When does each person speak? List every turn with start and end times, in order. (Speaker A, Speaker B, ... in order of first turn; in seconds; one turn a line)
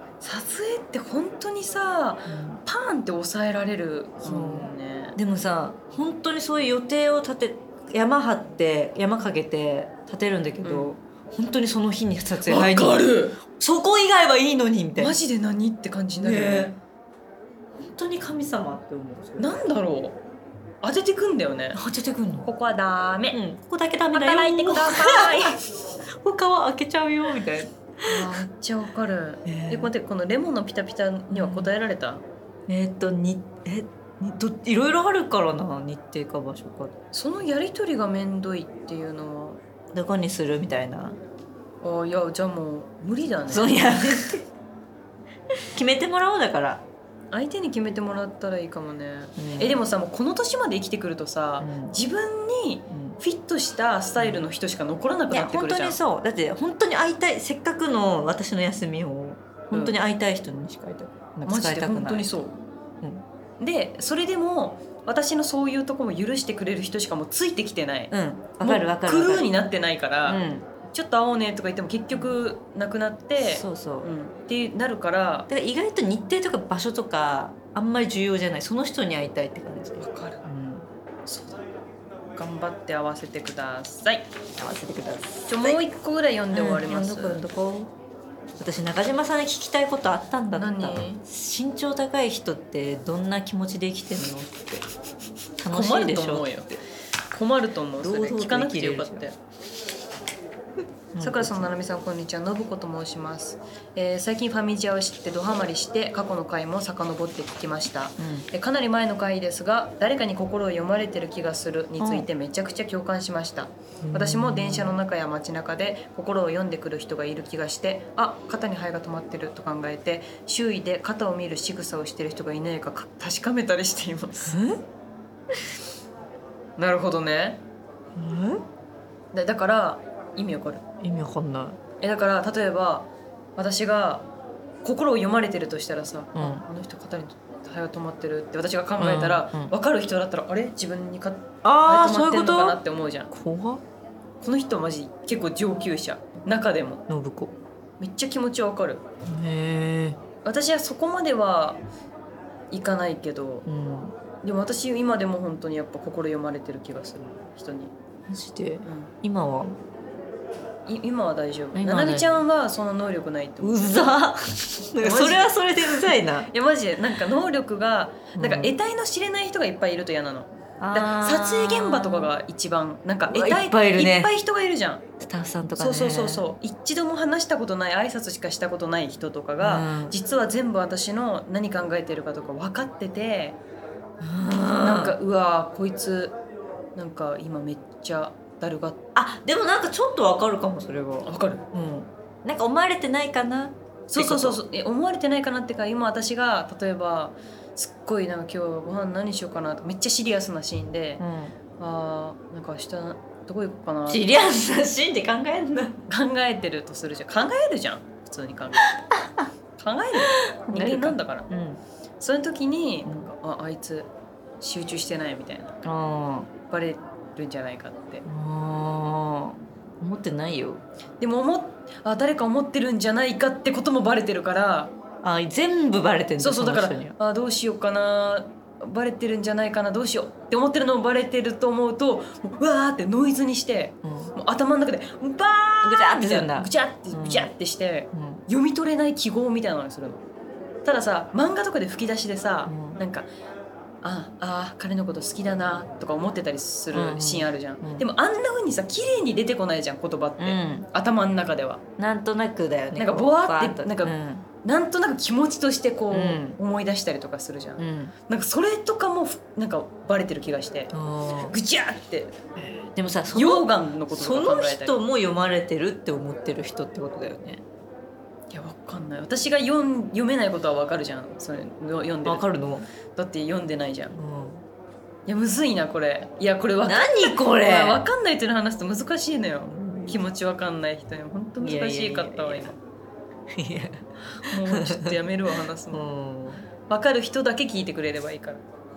Speaker A: 0.2-5.2
Speaker B: 2.3-2.6
Speaker B: 4.2-15.2
Speaker A: 10.6-10.9
Speaker A: 12.4-13.4
Speaker A: 15.0-16.7
Speaker B: 16.2-16.8
Speaker B: 17.8-19.5
Speaker A: 19.4-20.2
Speaker A: 20.8-21.8
Speaker B: 21.7-22.5
Speaker A: 22.4-23.4
Speaker B: 23.3-25.6
Speaker A: 24.1-25.6
Speaker B: 26.2-28.3
Speaker A: 28.0-32.2
Speaker B: 29.4-29.9
Speaker B: 31.3-31.7
Speaker B: 32.7-37.0
Speaker A: 37.1-39.6
Speaker B: 39.9-41.2
Speaker A: 41.8-43.9
Speaker B: 43.5-44.4
Speaker B: 45.7-46.8
Speaker A: 47.3-56.0
Speaker B: 49.4-49.8
Speaker B: 51.6-52.0
Speaker B: 52.9-53.2
Speaker B: 54.2-54.4
Speaker B: 55.3-62.4
Speaker A: 61.5-62.6
Speaker A: 63.6-75.5
Speaker B: 68.1-69.5
Speaker B: 70.2-70.7
Speaker B: 73.4-74.1
Speaker B: 75.5-80.9
Speaker A: 80.0-80.5
Speaker A: 81.2-81.6
Speaker A: 82.3-84.3
Speaker B: 84.6-85.8
Speaker A: 85.5-87.4
Speaker B: 86.5-87.9
Speaker B: 88.6-94.8
Speaker A: 90.5-91.2
Speaker B: 95.6-96.8
Speaker A: 95.7-96.8
Speaker A: 97.3-99.4
Speaker B: 98.0-99.3
Speaker B: 101.1-101.7
Speaker A: 101.2-124.6
Speaker B: 108.2-108.5
Speaker B: 112.0-112.3
Speaker B: 114.0-115.0
Speaker B: 124.5-124.8
Speaker A: 126.8-127.6
Speaker B: 128.2-128.6
Speaker A: 129.3-130.8
Speaker B: 131.0-131.8
Speaker A: 132.0-134.3
Speaker A: 134.8-143.3
Speaker B: 136.3-136.6
Speaker B: 139.0-139.7
Speaker B: 141.6-142.8
Speaker B: 143.3-143.8
Speaker A: 144.4-147.0
Speaker B: 147.1-147.5
Speaker A: 148.0-149.0
Speaker B: 149.2-150.2
Speaker A: 150.4-151.8
Speaker A: 152.7-153.6
Speaker B: 153.7-154.2
Speaker A: 154.4-157.9
Speaker B: 158.3-159.8
Speaker A: 158.8-159.1
Speaker A: 160.8-164.1
Speaker B: 161.7-162.4
Speaker B: 163.6-166.5
Speaker A: 165.0-175.0
Speaker B: 168.3-168.7
Speaker B: 170.8-172.3
Speaker B: 173.3-174.3
Speaker B: 175.2-176.4
Speaker A: 175.8-183.6
Speaker B: 179.6-180.2
Speaker B: 184.2-185.2
Speaker A: 184.8-186.3
Speaker A: 186.9-189.0
Speaker B: 189.1-194.6
Speaker A: 191.2-191.7
Speaker A: 194.1-201.2
Speaker B: 201.2-201.6
Speaker A: 201.8-204.3
Speaker B: 204.1-206.1
Speaker A: 206.1-209.0
Speaker B: 209.0-209.4
Speaker A: 209.8-211.5
Speaker B: 210.2-211.8
Speaker A: 212.2-215.7
Speaker B: 215.8-216.5
Speaker A: 216.6-218.2
Speaker B: 218.2-220.8
Speaker A: 221.2-224.9
Speaker B: 225.2-227.1
Speaker A: 226.4-240.2
Speaker B: 234.0-234.3
Speaker B: 235.8-237.5
Speaker B: 238.1-238.4
Speaker A: 240.8-243.3
Speaker B: 242.7-243.0
Speaker A: 244.0-251.8
Speaker B: 246.9-248.1
Speaker B: 250.4-250.9
Speaker B: 252.0-254.4
Speaker A: 252.9-262.3
Speaker B: 256.1-256.6
Speaker B: 257.8-258.1
Speaker B: 260.9-261.5
Speaker B: 262.6-267.6
Speaker A: 263.3-264.9
Speaker A: 268.5-272.4
Speaker B: 272.2-272.9
Speaker A: 273.1-274.1
Speaker B: 274.1-274.6
Speaker A: 275.3-282.8
Speaker B: 276.8-278.0
Speaker B: 279.6-280.2
Speaker B: 281.6-282.7
Speaker B: 283.5-285.1
Speaker A: 284.4-286.1
Speaker B: 285.9-286.6
Speaker A: 286.9-288.6